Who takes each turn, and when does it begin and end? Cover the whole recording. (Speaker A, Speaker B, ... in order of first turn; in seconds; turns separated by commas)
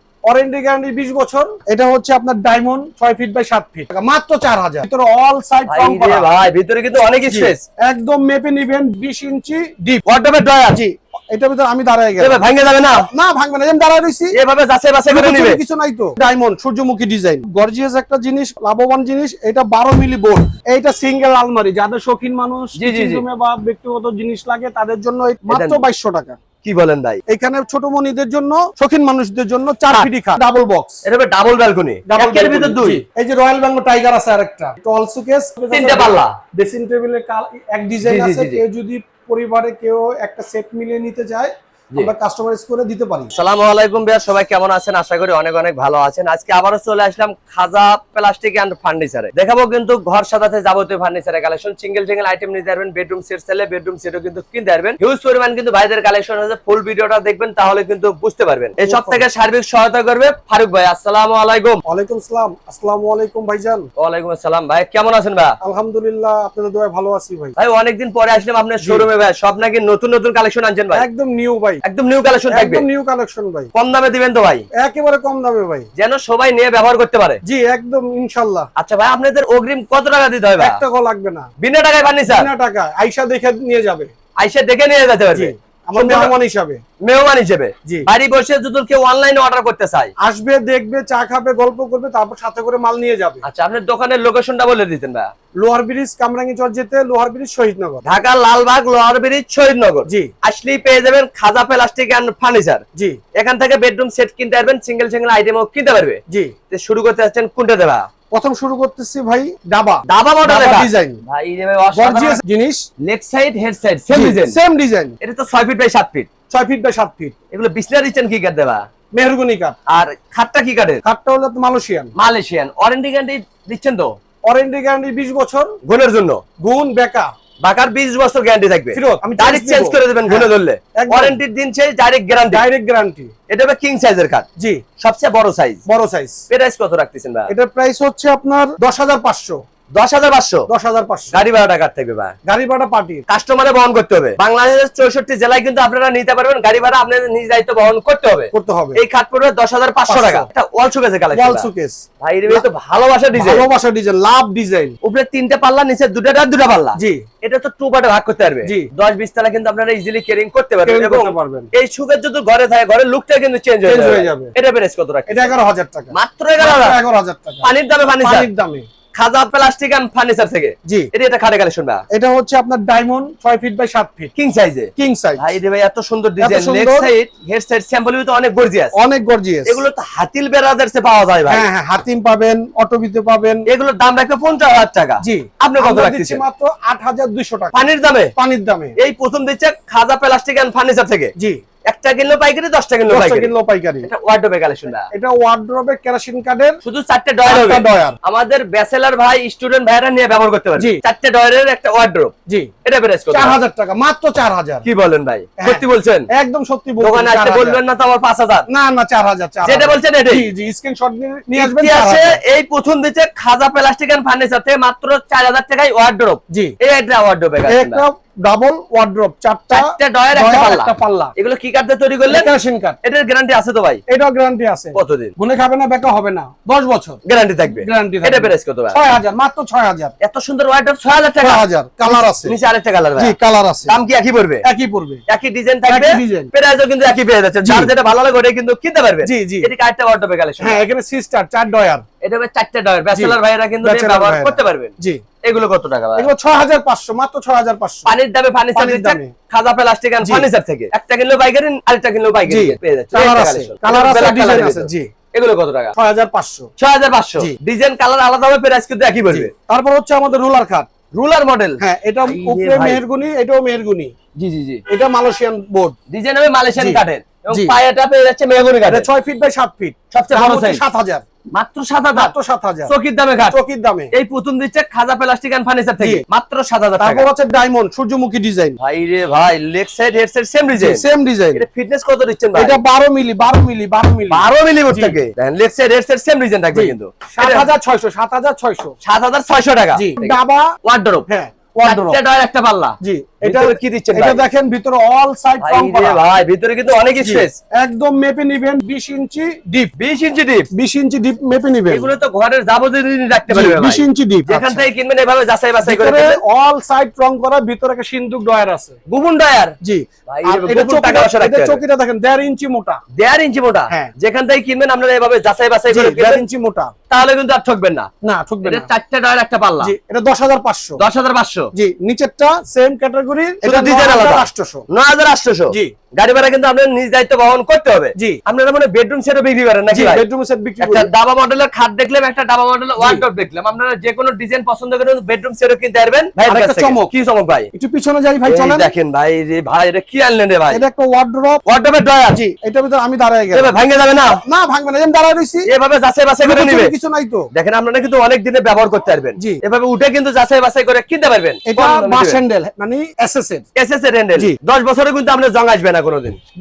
Speaker A: 0.3-6.3, Speaker B: 5.7-7.6, Speaker A: 7.3-10.1, Speaker B: 10.1-10.8, Speaker A: 10.7-12.4, Speaker B: 12.2-13.1, Speaker A: 13.0-14.4, Speaker B: 14.3-15.6, Speaker A: 15.1-26.4, Speaker B: 22.8-23.2, Speaker B: 25.5-25.8, Speaker B: 26.6-27.2, Speaker A: 27.3-31.0, Speaker B: 31.1-33.0, Speaker A: 32.1-43.3, Speaker B: 35.7-36.3, Speaker B: 38.0-38.6, Speaker B: 43.3-61.8, Speaker A: 58.8-59.2, Speaker A: 61.9-63.9, Speaker B: 64.0-65.6, Speaker A: 65.6-67.6, Speaker B: 67.6-71.0, Speaker A: 68.8-69.1, Speaker A: 70.9-71.8, Speaker B: 71.8-72.8, Speaker A: 72.5-73.7, Speaker B: 73.7-74.7, Speaker A: 74.8-75.9, Speaker B: 76.0-77.4, Speaker A: 77.5-78.7, Speaker B: 78.8-80.8, Speaker A: 80.6-81.5, Speaker B: 81.6-82.5, Speaker A: 82.3-84.1, Speaker B: 84.4-86.3, Speaker A: 85.3-86.8, Speaker B: 87.0-90.1, Speaker A: 90.2-93.5, Speaker B: 93.4-95.3, Speaker A: 95.6-98.1, Speaker B: 98.0-102.8, Speaker A: 100.1-100.3, Speaker B: 103.4-108.1, Speaker A: 106.3-106.5, Speaker A: 108.3-111.2, Speaker B: 110.1-112.4, Speaker A: 112.0-112.8, Speaker B: 113.0-114.6, Speaker A: 114.1-115.2, Speaker B: 115.2-116.3, Speaker A: 116.5-117.3, Speaker B: 117.5-118.8, Speaker A: 119.1-119.8, Speaker B: 119.9-121.0, Speaker A: 121.0-122.1, Speaker B: 122.2-124.1, Speaker A: 124.5-125.8, Speaker B: 125.8-126.4, Speaker A: 126.6-127.3, Speaker B: 127.6-132.7, Speaker A: 128.9-131.4, Speaker A: 132.5-133.3, Speaker B: 133.5-134.5, Speaker B: 135.0-135.8, Speaker A: 135.9-136.4, Speaker B: 136.5-137.5, Speaker A: 137.5-139.6, Speaker B: 140.0-140.7, Speaker A: 140.7-141.4, Speaker B: 141.3-142.3, Speaker A: 142.5-143.2, Speaker B: 143.3-151.7, Speaker A: 148.5-149.0, Speaker A: 150.1-150.5, Speaker A: 151.3-152.7, Speaker B: 152.2-153.7, Speaker A: 153.4-155.0, Speaker B: 155.0-165.6, Speaker A: 157.0-157.2, Speaker A: 160.8-161.7, Speaker A: 163.8-164.5, Speaker A: 165.3-167.7, Speaker B: 166.1-167.0, Speaker B: 167.6-168.5, Speaker A: 168.2-168.9, Speaker B: 169.2-172.0, Speaker A: 172.1-174.3, Speaker B: 174.4-178.9, Speaker A: 175.0-175.5, Speaker A: 176.4-177.1, Speaker A: 178.9-179.8, Speaker B: 179.7-181.7, Speaker A: 181.5-183.7, Speaker B: 183.7-186.4, Speaker A: 185.2-187.7, Speaker B: 187.7-188.3, Speaker A: 188.4-188.9, Speaker B: 189.0-191.3, Speaker B: 191.9-193.5, Speaker A: 193.1-194.1, Speaker B: 194.0-195.1, Speaker A: 195.1-196.8, Speaker B: 196.8-202.3, Speaker A: 197.4-198.2, Speaker A: 200.8-201.0, Speaker B: 202.8-203.6, Speaker A: 203.3-204.9, Speaker B: 204.8-206.3, Speaker A: 205.6-207.8, Speaker B: 207.0-208.7, Speaker A: 208.7-212.4, Speaker B: 209.6-210.5, Speaker B: 211.6-218.0, Speaker A: 217.7-221.3, Speaker B: 219.7-222.5, Speaker A: 222.3-223.0, Speaker B: 223.0-224.0, Speaker A: 224.1-227.2, Speaker B: 224.9-225.3, Speaker B: 227.2-229.0, Speaker A: 227.7-230.1, Speaker B: 230.2-233.3, Speaker A: 231.4-232.5, Speaker A: 233.2-234.0, Speaker B: 233.9-234.6, Speaker A: 234.6-235.2, Speaker B: 235.3-240.8, Speaker A: 235.9-236.5, Speaker A: 237.6-237.9, Speaker A: 239.2-239.7, Speaker A: 240.6-242.0, Speaker B: 242.2-244.9, Speaker A: 243.1-245.2, Speaker B: 245.4-246.3, Speaker A: 246.2-248.1, Speaker B: 248.1-255.9, Speaker A: 248.8-249.3, Speaker A: 252.5-255.1, Speaker A: 256.0-256.7, Speaker B: 256.8-259.5, Speaker A: 259.3-260.9, Speaker B: 261.1-263.0, Speaker A: 261.8-264.1, Speaker B: 264.4-264.8, Speaker A: 264.9-265.9, Speaker B: 266.1-269.1, Speaker A: 266.8-267.8, Speaker A: 268.9-271.2, Speaker B: 270.1-270.8, Speaker B: 271.5-272.3, Speaker A: 272.1-272.9, Speaker B: 272.9-273.6, Speaker A: 273.5-274.1, Speaker B: 274.1-277.3, Speaker A: 277.0-278.8, Speaker B: 278.8-282.8, Speaker A: 280.8-281.6, Speaker A: 282.6-285.2, Speaker B: 284.3-287.7, Speaker A: 286.7-288.9, Speaker B: 289.0-291.3, Speaker A: 289.9-290.7, Speaker A: 291.3-292.2, Speaker B: 291.8-294.4, Speaker A: 293.0-296.2, Speaker B: 295.6-297.6, Speaker A: 297.2-299.9, Speaker B: 300.0-300.7, Speaker A: 300.7-302.1, Speaker B: 301.9-306.4, Speaker A: 303.5-304.9, Speaker A: 305.8-309.0, Speaker B: 309.1-309.8, Speaker A: 309.8-313.0, Speaker B: 310.3-311.8, Speaker B: 313.1-316.4, Speaker A: 315.9-316.9, Speaker B: 317.1-318.1, Speaker A: 318.2-318.9, Speaker B: 318.6-319.9, Speaker A: 319.8-321.0, Speaker B: 321.0-321.7, Speaker A: 321.8-324.9, Speaker B: 323.6-330.2, Speaker A: 329.9-331.1, Speaker B: 330.8-337.7, Speaker A: 336.5-337.1, Speaker A: 337.7-338.9, Speaker B: 338.5-340.8, Speaker A: 340.7-341.6, Speaker B: 341.7-342.4, Speaker A: 342.3-343.7, Speaker B: 343.5-344.4, Speaker A: 344.4-345.7, Speaker B: 345.7-346.9, Speaker A: 346.4-347.5, Speaker B: 347.5-352.4, Speaker A: 351.6-353.7, Speaker B: 353.8-356.4